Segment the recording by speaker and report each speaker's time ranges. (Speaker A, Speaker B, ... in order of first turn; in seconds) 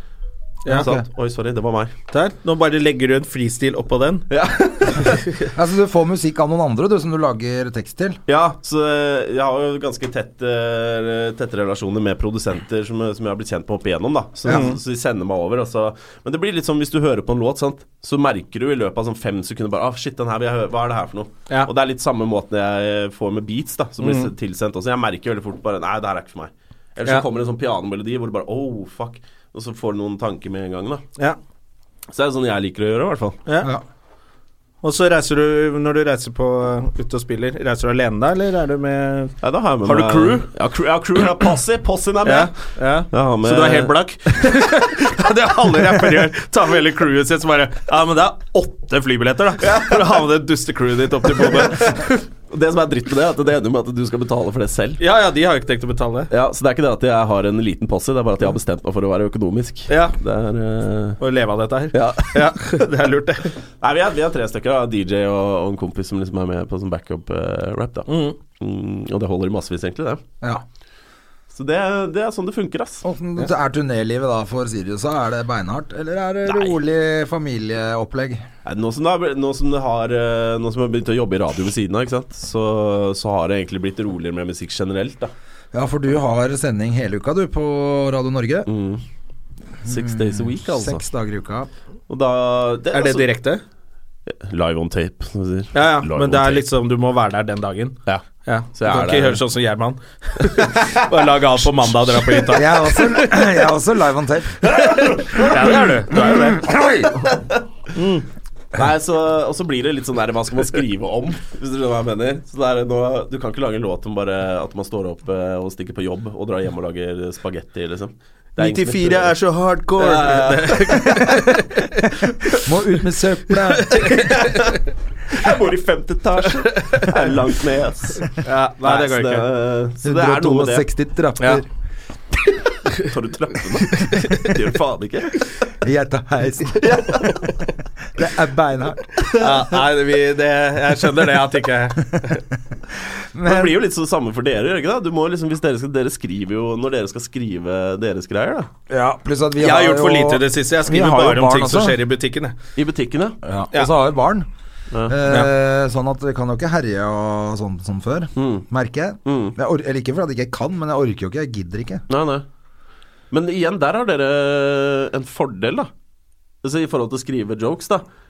Speaker A: 0.7-1.9, 4.3-5.2, 8.3-31.0, 32.1-33.4, 39.4-44.6, 49.6-50.2, 51.2-55.0, 56.3-61.2, 61.9-62.7, 63.8-70.2, 71.5-73.0, 76.5-76.8, 78.6-85.3, 88.7-89.0, 89.8-91.0, 92.1-93.3, 94.3-96.6, 98.7-99.4, 104.7-105.9, 107.2-107.6, 108.7-119.3, 120.0-121.1, 123.9-124.8, 125.3-130.9, 133.0-135.7, 136.8-137.6, 139.2-139.5, 143.4-148.7, 152.8-153.4, 154.9-155.2, 158.4-158.6, 159.2-159.5, 162.1-162.4, 163.3-165.9, 166.6-168.0
Speaker B: 0.7-1.0, 5.5-8.2, 73.0-78.5, 85.7-88.7, 89.8-91.7, 102.5-104.6, 106.2-107.2, 122.6-124.0, 130.0-131.7, 135.8-137.2, 138.1-139.1, 143.3-143.7, 148.9-152.0, 153.4-154.5, 155.1-162.0
Speaker C: 2.1-4.2, 4.9-5.2, 14.5-14.8, 24.0-24.3, 34.8-40.5, 42.2-52.2, 55.0-56.3, 59.9-60.1, 61.2-63.5, 68.1-68.3, 92.9-93.6, 95.7-103.3, 104.7-106.7, 107.9-108.2, 118.6-122.6, 123.8-124.6, 126.7-127.2, 128.2-129.5, 133.8-134.5, 139.3-142.4, 149.6-152.6